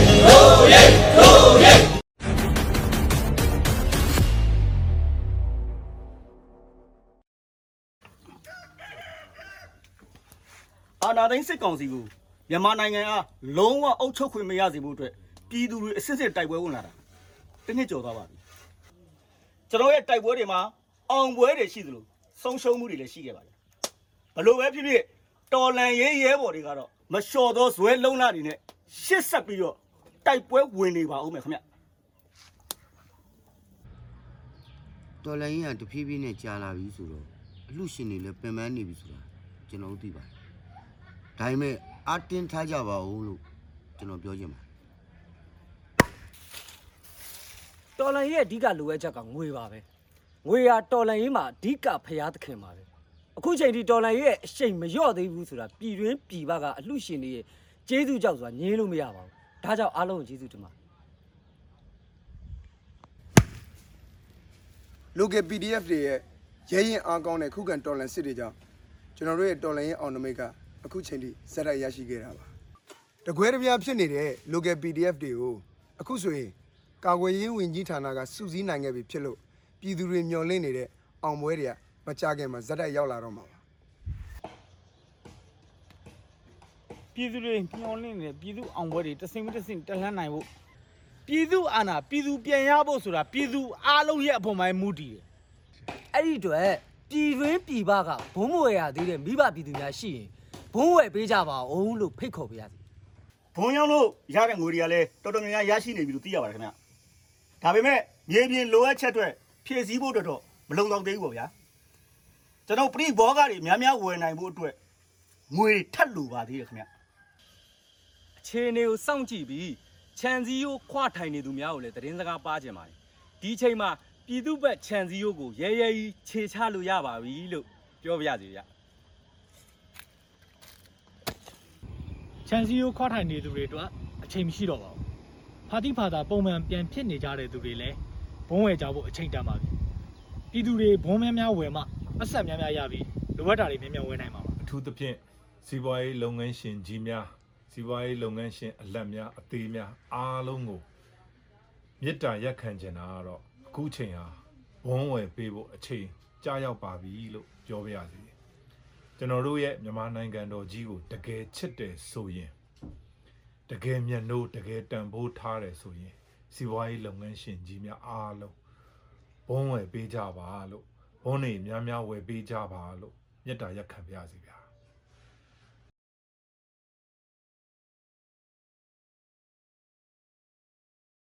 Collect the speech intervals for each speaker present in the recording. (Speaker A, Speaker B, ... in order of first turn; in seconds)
Speaker A: 11.0-17.0, 17.7-18.4, 19.7-23.5, 24.4-31.6, 103.5-106.8, 107.6-111.5, 112.7-114.8, 115.5-116.9
Speaker B: 35.2-40.4, 41.4-43.4, 44.0-44.6
Speaker C: 48.0-49.9, 50.4-60.7, 96.1-102.8
Speaker D: 65.1-68.5, 69.2-72.5, 73.2-83.6
Speaker E: 87.1-90.5, 91.3-95.2
Speaker F: 118.5-122.9, 123.4-128.6
Speaker G: 132.5-135.0, 135.7-139.7, 140.5-144.6
Speaker H: 144.6-150.8, 152.0-158.3, 159.2-162.5, 163.7-168.6, 169.5-174.7